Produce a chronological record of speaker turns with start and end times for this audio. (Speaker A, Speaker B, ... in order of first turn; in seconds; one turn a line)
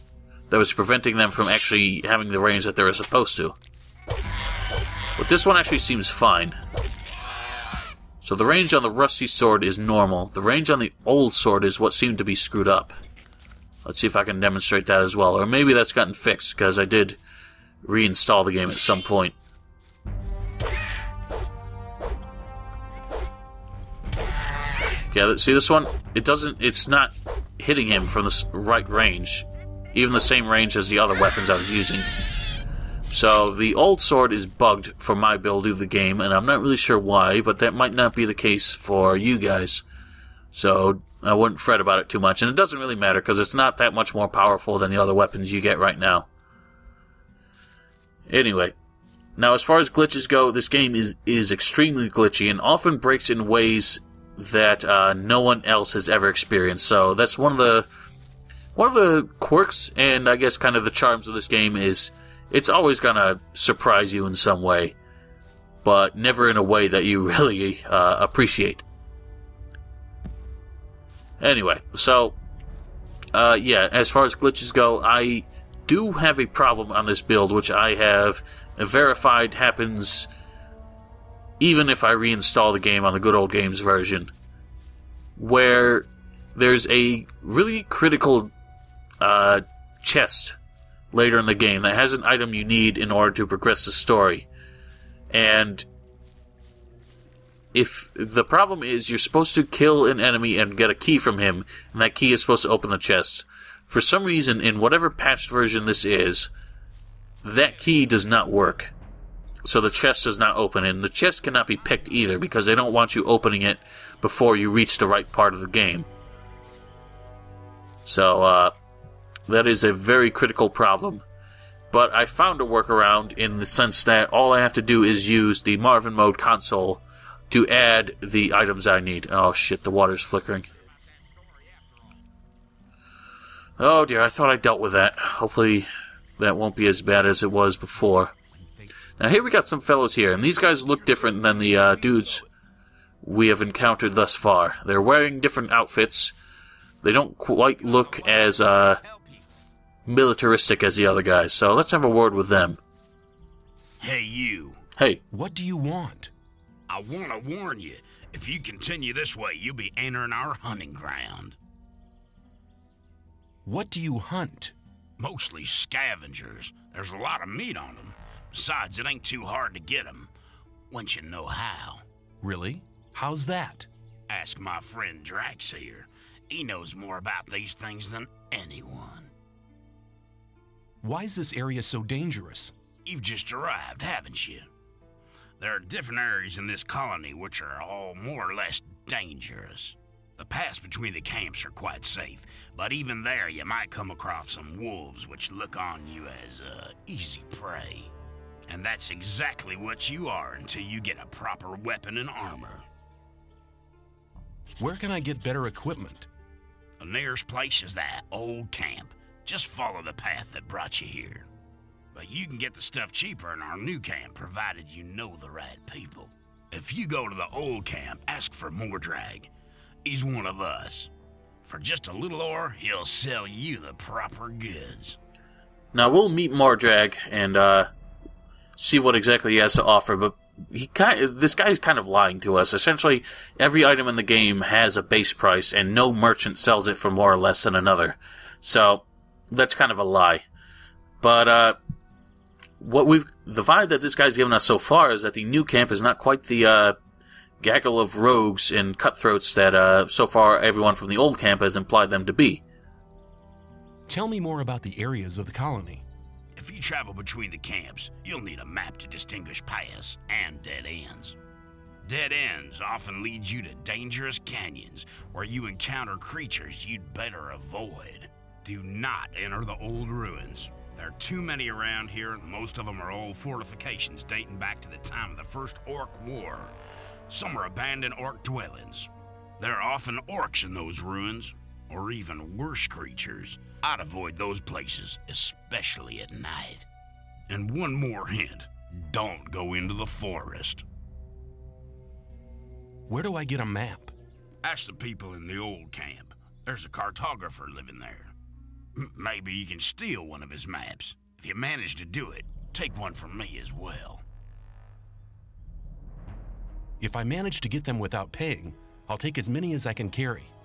Speaker A: 0.5-3.6
Speaker A: 5.2-6.6
Speaker A: 8.2-12.9
Speaker A: 13.8-17.2
Speaker A: 17.8-19.3
Speaker A: 25.1-32.1
Speaker A: 33.1-39.8
Speaker A: 40.5-46.3
Speaker A: 48.3-48.8
Speaker A: 49.4-57.9
Speaker A: 58.8-65.0
Speaker A: 65.8-68.8
Speaker A: 71.4-72.4
Speaker A: 73.3-80.3
Speaker A: 81.6-84.3
Speaker A: 85.4-88.5
Speaker A: 89.2-90.6
Speaker A: 91.1-94.5
Speaker A: 95.3-95.9
Speaker A: 97.7-106.5
Speaker A: 107.5-108.9
Speaker A: 109.6-116.1
Speaker A: 118.1-118.7
Speaker A: 119.5-121.2
Speaker A: 121.9-130.7
Speaker A: 133.8-135.9
Speaker A: 136.4-138.3
Speaker A: 139.2-142.4
Speaker A: 143.2-146.3
Speaker A: 147.0-149.0
Speaker B: 147.8-149.5
Speaker A: 150.1-152.8
Speaker B: 154.0-154.8
Speaker C: 155.3-156.3
Speaker B: 156.9-161.6
Speaker C: 163.7-164.7
Speaker B: 165.2-170.3
Speaker B: 170.9-172.0
Speaker C: 172.4-173.9
Speaker B: 174.3-179.3
Speaker C: 181.0-182.7
Speaker B: 183.1-184.7
Speaker B: 185.6-198.1
Speaker B: 198.7-202.9
Speaker C: 204.8-206.3
Speaker B: 207.0-211.5
Speaker B: 212.1-219.5
Speaker B: 220.0-221.1
Speaker B: 221.6-225.2
Speaker A: 225.9-227.9
Speaker A: 228.8-240.4
Speaker A: 241.2-241.8
Speaker A: 242.8-247.0
Speaker A: 247.6-252.6
Speaker C: 254.1-256.0
Speaker B: 256.6-261.4
Speaker B: 262.1-276.8
Speaker B: 277.3-286.9
Speaker B: 287.5-290.8
Speaker C: 293.1-294.1
Speaker B: 294.6-298.3
Speaker B: 299.0-304.2
Speaker C: 307.0-310.5